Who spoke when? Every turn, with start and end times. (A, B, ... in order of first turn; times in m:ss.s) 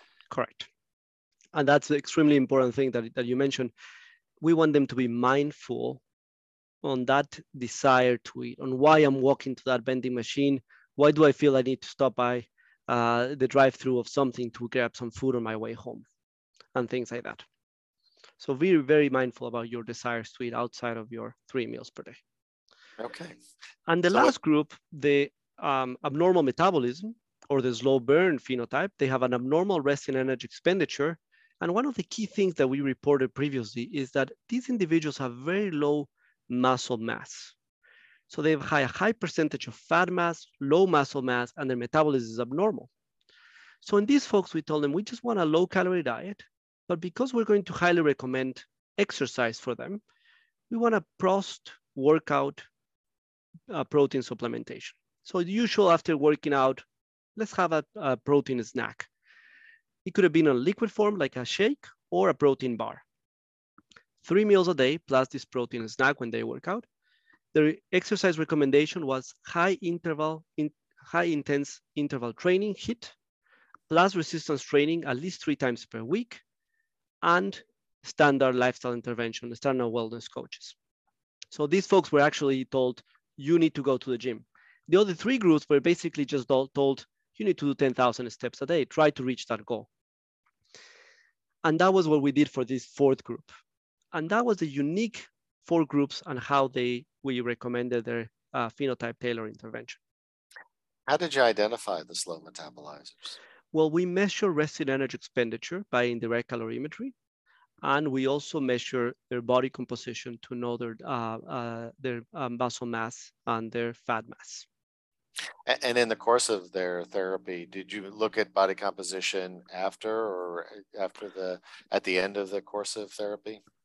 0:00.3-0:00.7 A
0:01.5-0:03.7 A
0:04.4-0:06.0 A
0:06.8-0:16.0 A
0:16.7-0:17.4 A
0:18.4-0:22.2 A
0:23.0-0:23.4 B
0:23.9-0:37.5 A
0:38.3-0:42.9 A
0:43.8-0:50.0 A
0:50.7-0:52.6 A
0:53.7-0:56.8 A
0:57.4-0:59.1 A
1:00.0-1:03.0 A
1:04.2-1:06.8 A
1:07.5-1:13.1 A
1:13.9-1:16.4 A
1:17.2-1:20.8 A
1:21.5-1:29.9 A
1:31.6-1:33.5 A
1:34.1-1:40.0 A
1:41.1-1:43.4 B
1:43.7-1:47.1 A
1:47.8-1:54.6 A
1:55.7-2:03.6 B